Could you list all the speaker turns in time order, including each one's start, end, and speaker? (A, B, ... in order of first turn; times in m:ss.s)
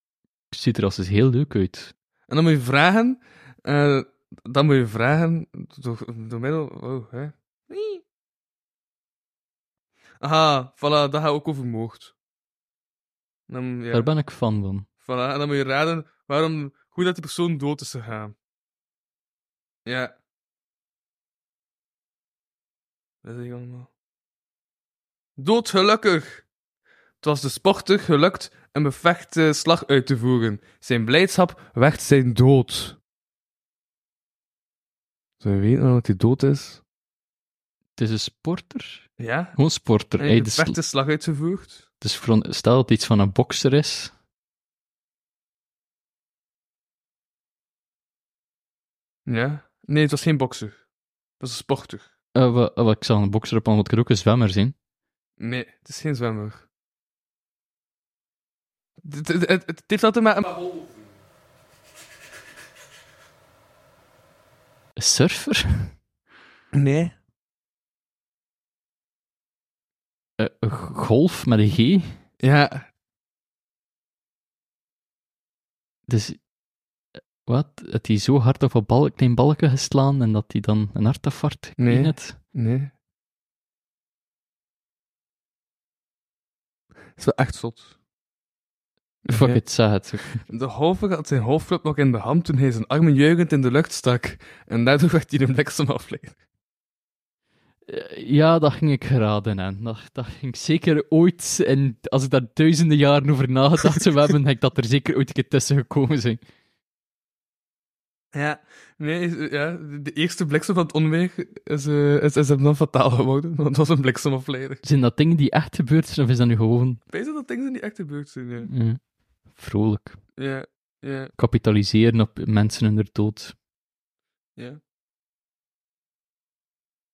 0:00.5-0:01.9 A
0:02.3-0:08.0 B
0:10.2-0:12.1 B
0:13.5-0:14.1 B
0:13.9-0:14.9 A
0:15.0-0:18.3 B
0:19.8-0:20.1 B
0:23.2-0:23.9 B
0:25.4-0:26.4 B
0:27.2-0:33.0 B
0:35.4-0:36.8 B
0:38.0-0:40.8 A
0:39.2-0:39.6 B
0:40.2-0:41.8 B
0:42.0-0:44.1 A
0:49.2-0:50.8 B
0:51.4-0:52.1 B
0:52.3-0:54.7 A
0:55.4-0:56.6 B
0:59.0-1:00.9 B
1:05.0-1:05.9 A
1:06.7-1:07.1 B
1:10.4-1:12.2 A
1:12.4-1:12.9 B
1:16.1-1:16.4 A
1:17.4-1:22.4 A
1:21.8-1:22.9 B
1:27.2-1:27.9 B
1:29.2-1:29.6 B
1:29.3-1:30.4 A
1:30.5-1:36.3 B
1:37.9-1:46.4 A
1:48.3-1:54.8 B
1:54.8-1:57.0 A
1:57.1-1:58.7 B
1:58.6-1:59.0 A
1:59.5-2:00.2 A
2:00.4-2:01.3 B
2:01.4-2:03.5 A